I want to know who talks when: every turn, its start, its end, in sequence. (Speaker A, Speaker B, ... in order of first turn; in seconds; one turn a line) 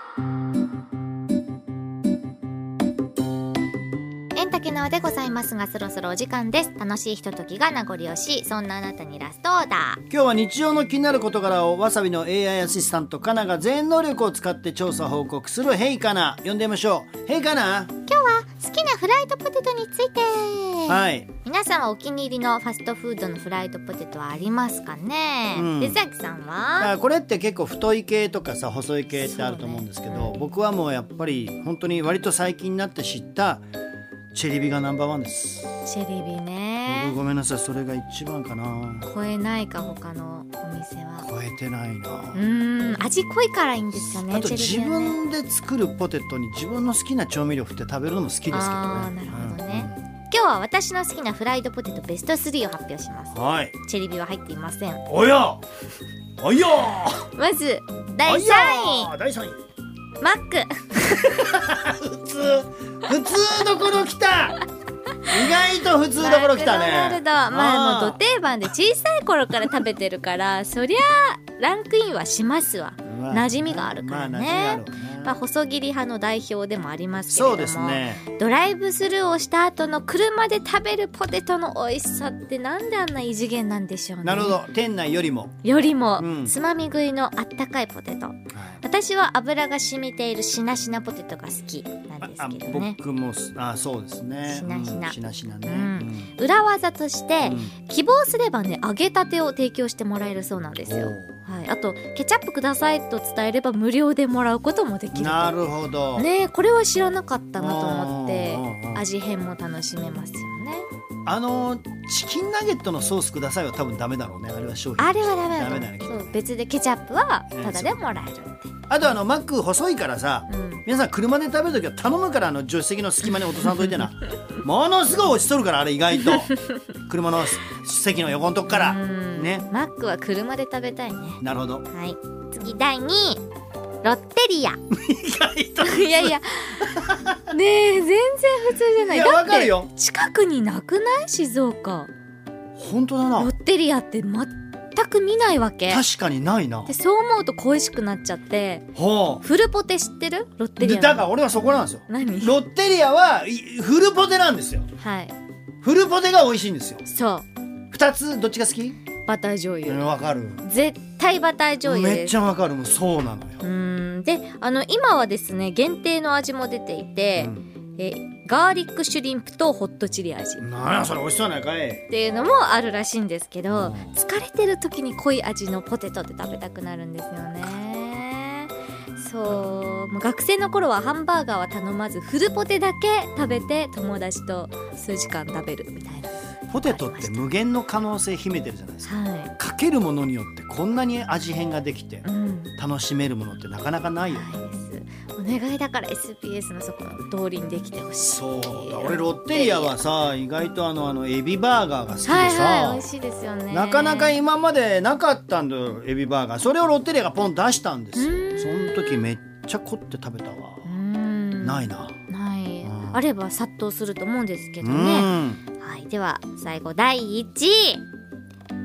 Speaker A: 4.3-10.0
Speaker B: 10.1-17.9
Speaker A: 18.1-26.9
Speaker B: 20.9-21.3
Speaker B: 25.5-26.0
Speaker B: 26.8-33.7
Speaker A: 29.1-30.4
Speaker B: 34.3-35.7
Speaker A: 35.9-37.2
Speaker B: 36.9-39.1
Speaker A: 39.0-41.3
Speaker B: 41.2-42.5
Speaker A: 42.3-45.2
Speaker B: 44.0-50.0
Speaker A: 48.5-55.1
Speaker B: 53.3-53.7
Speaker B: 55.1-55.6
Speaker B: 56.4-57.3
Speaker A: 57.4-59.1
Speaker B: 58.2-59.6
Speaker A: 60.2-61.6
Speaker B: 61.1-64.6
Speaker B: 65.2-68.2
Speaker A: 66.1-84.6
Speaker B: 73.0-75.4
Speaker B: 77.3-78.2
Speaker B: 84.2-85.6
Speaker A: 85.6-93.0
Speaker B: 86.2-86.5
Speaker B: 88.5-88.8
Speaker B: 92.2-96.3
Speaker A: 94.5-105.6
Speaker B: 97.4-97.7
Speaker B: 100.8-101.4
Speaker B: 105.1-106.3
Speaker A: 106.2-110.9
Speaker B: 107.6-109.0
Speaker B: 111.3-116.3
Speaker A: 115.0-118.7
Speaker B: 117.5-118.0
Speaker B: 118.9-129.7
Speaker A: 120.5-120.8
Speaker A: 128.7-133.4
Speaker B: 131.4-131.8
Speaker A: 134.0-134.8
Speaker B: 134.9-137.6
Speaker A: 135.8-142.1
Speaker B: 139.0-139.9
Speaker B: 142.8-143.5
Speaker A: 143.4-146.0
Speaker B: 145.9-146.9
Speaker A: 146.9-148.9
Speaker B: 148.9-149.4
Speaker A: 149.4-151.3
Speaker B: 150.8-154.9
Speaker A: 152.1-152.6
Speaker A: 155.0-155.3
Speaker B: 155.8-157.0
Speaker A: 157.1-157.5
Speaker B: 157.9-159.0
Speaker A: 159.2-160.1
Speaker B: 159.8-160.7
Speaker A: 160.6-162.4
Speaker B: 161.8-163.7
Speaker A: 163.6-170.7
Speaker B: 167.4-167.6
Speaker B: 170.6-172.1
Speaker A: 172.1-187.5
Speaker B: 173.7-174.1
Speaker B: 183.4-183.7
Speaker B: 186.7-192.2
Speaker A: 189.1-189.5
Speaker A: 192.2-192.7
Speaker B: 192.8-194.5
Speaker A: 194.3-199.9
Speaker B: 198.3-203.1
Speaker A: 202.2-204.4
Speaker B: 203.7-210.9
Speaker A: 208.2-209.2
Speaker A: 210.8-218.0
Speaker B: 211.6-212.2
Speaker B: 212.9-213.2
Speaker B: 214.8-215.6